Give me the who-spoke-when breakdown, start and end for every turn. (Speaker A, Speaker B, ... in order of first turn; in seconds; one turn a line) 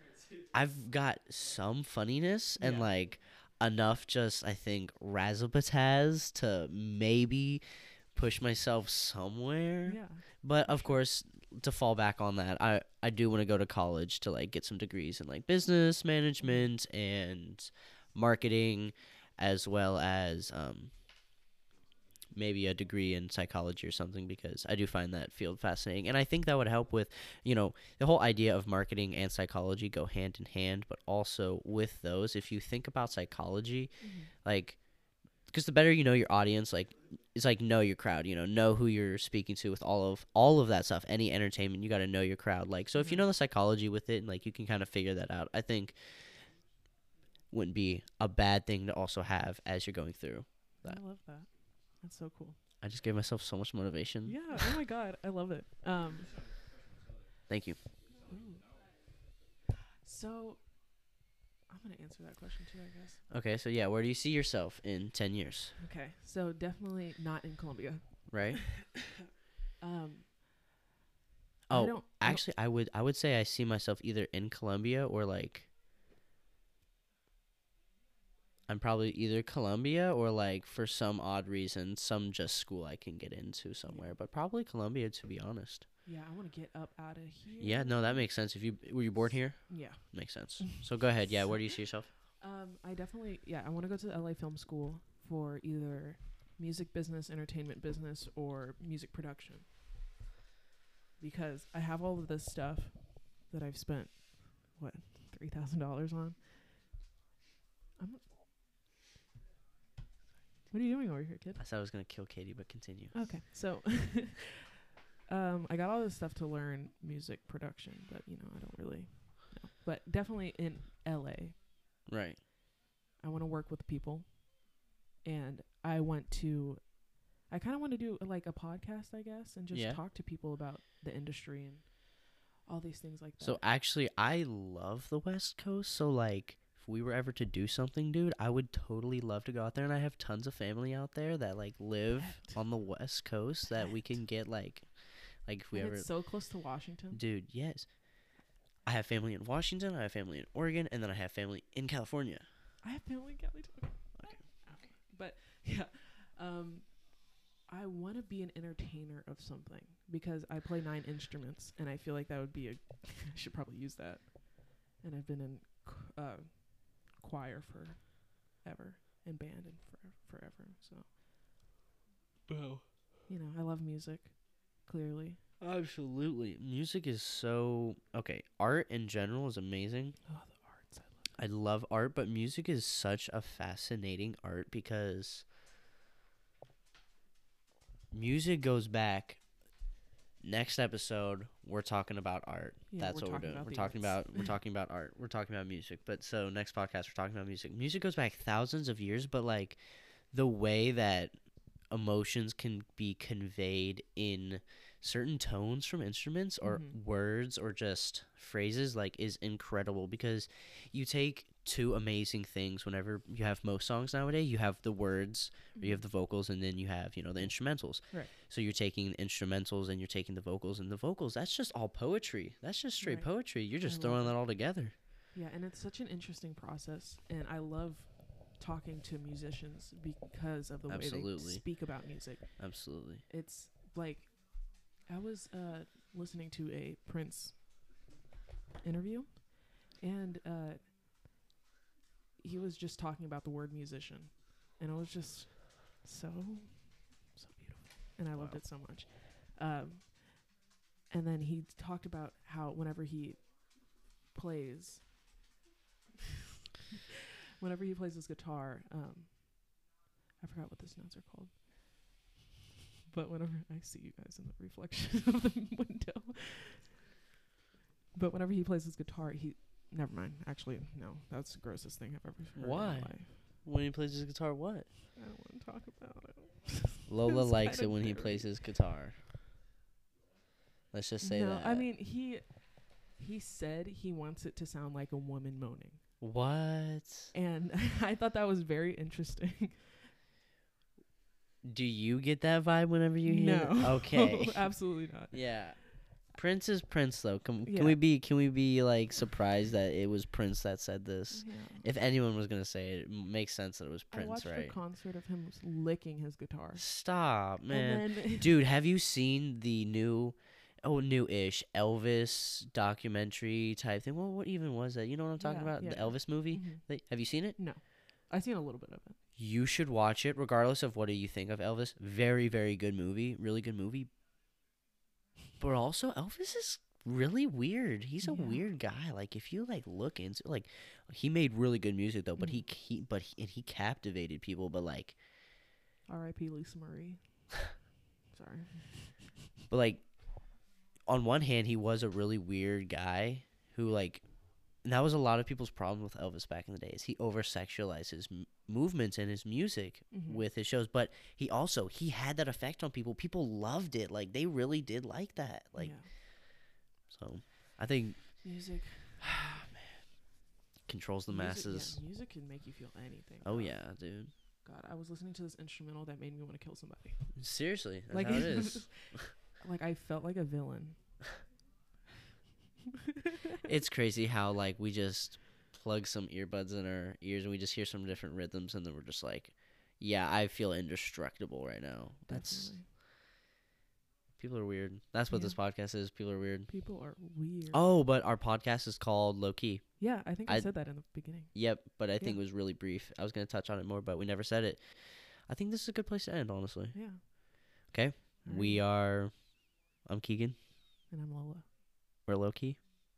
Speaker A: 0.5-20.9
Speaker B: 2.6-2.9
Speaker B: 9.8-11.0
Speaker B: 16.4-16.7
Speaker A: 22.4-46.5
Speaker B: 34.0-34.3
Speaker B: 43.0-43.3
Speaker A: 47.5-51.0
Speaker B: 50.8-52.6
Speaker A: 52.8-54.8
Speaker B: 54.2-56.3
Speaker A: 57.5-57.8
Speaker B: 58.3-58.6
Speaker B: 60.0-60.6
Speaker B: 61.7-63.2
Speaker A: 63.3-65.7
Speaker B: 65.8-68.6
Speaker A: 68.3-68.9
Speaker B: 69.8-70.3
Speaker A: 71.7-75.7
Speaker B: 71.7-72.5
Speaker A: 78.7-85.9
Speaker B: 83.9-84.2
Speaker B: 86.0-88.3
Speaker A: 87.6-92.1
Speaker B: 89.7-90.8
Speaker B: 92.4-99.7
Speaker B: 101.2-106.6
Speaker B: 108.0-108.2
Speaker B: 110.7-111.6
Speaker A: 111.6-113.3
Speaker B: 113.1-114.6
Speaker B: 115.3-121.6
Speaker A: 122.1-122.4
Speaker B: 123.2-133.7
Speaker A: 129.7-130.0
Speaker A: 133.4-146.6
Speaker B: 142.2-142.6
Speaker B: 143.8-144.2
Speaker B: 145.7-147.2
Speaker A: 147.1-152.4
Speaker B: 152.8-171.1
Speaker A: 154.2-154.9
Speaker A: 172.5-172.8
Speaker B: 173.3-175.4
Speaker A: 175.6-180.2
Speaker B: 180.3-181.3
Speaker A: 181.4-185.5
Speaker A: 188.1-189.4
Speaker A: 190.4-224.9
Speaker B: 192.9-194.5
Speaker B: 206.6-207.0
Speaker B: 215.8-216.1
Speaker B: 223.0-224.6
Speaker B: 225.3-237.6
Speaker A: 230.9-232.1
Speaker A: 232.6-233.2
Speaker B: 238.8-240.8
Speaker B: 242.4-250.6
Speaker A: 248.3-248.6
Speaker B: 251.1-255.2
Speaker B: 257.6-261.6
Speaker B: 263.1-266.9
Speaker B: 268.1-273.4
Speaker A: 272.6-274.9
Speaker B: 275.2-278.5
Speaker A: 277.1-279.2
Speaker A: 280.9-281.9
Speaker B: 281.2-286.0
Speaker A: 286.2-287.3
Speaker B: 287.3-290.0
Speaker A: 291.6-294.8
Speaker B: 293.2-295.7
Speaker A: 295.3-304.8
Speaker B: 297.6-298.0
Speaker B: 301.3-301.9
Speaker B: 304.1-308.5
Speaker A: 306.8-317.6
Speaker B: 315.4-317.0
Speaker B: 317.5-319.2
Speaker A: 319.4-324.1
Speaker A: 325.6-335.2
Speaker B: 328.2-328.7
Speaker B: 332.4-332.6
Speaker B: 336.1-339.4
Speaker A: 339.7-358.6
Speaker B: 350.1-350.5
Speaker B: 355.8-356.1
Speaker B: 358.4-359.3
Speaker A: 359.2-359.6
Speaker A: 360.9-362.0
Speaker B: 361.3-367.4
Speaker A: 363.4-364.3
Speaker A: 367.4-369.2
Speaker B: 368.1-371.0
Speaker A: 373.6-382.8
Speaker B: 382.3-382.9
Speaker A: 384.4-386.7
Speaker B: 385.3-385.6
Speaker B: 386.7-387.9
Speaker A: 387.7-400.6
Speaker B: 390.0-392.4
Speaker B: 396.9-397.2
Speaker B: 398.4-398.8
Speaker B: 401.1-401.7
Speaker A: 402.2-402.8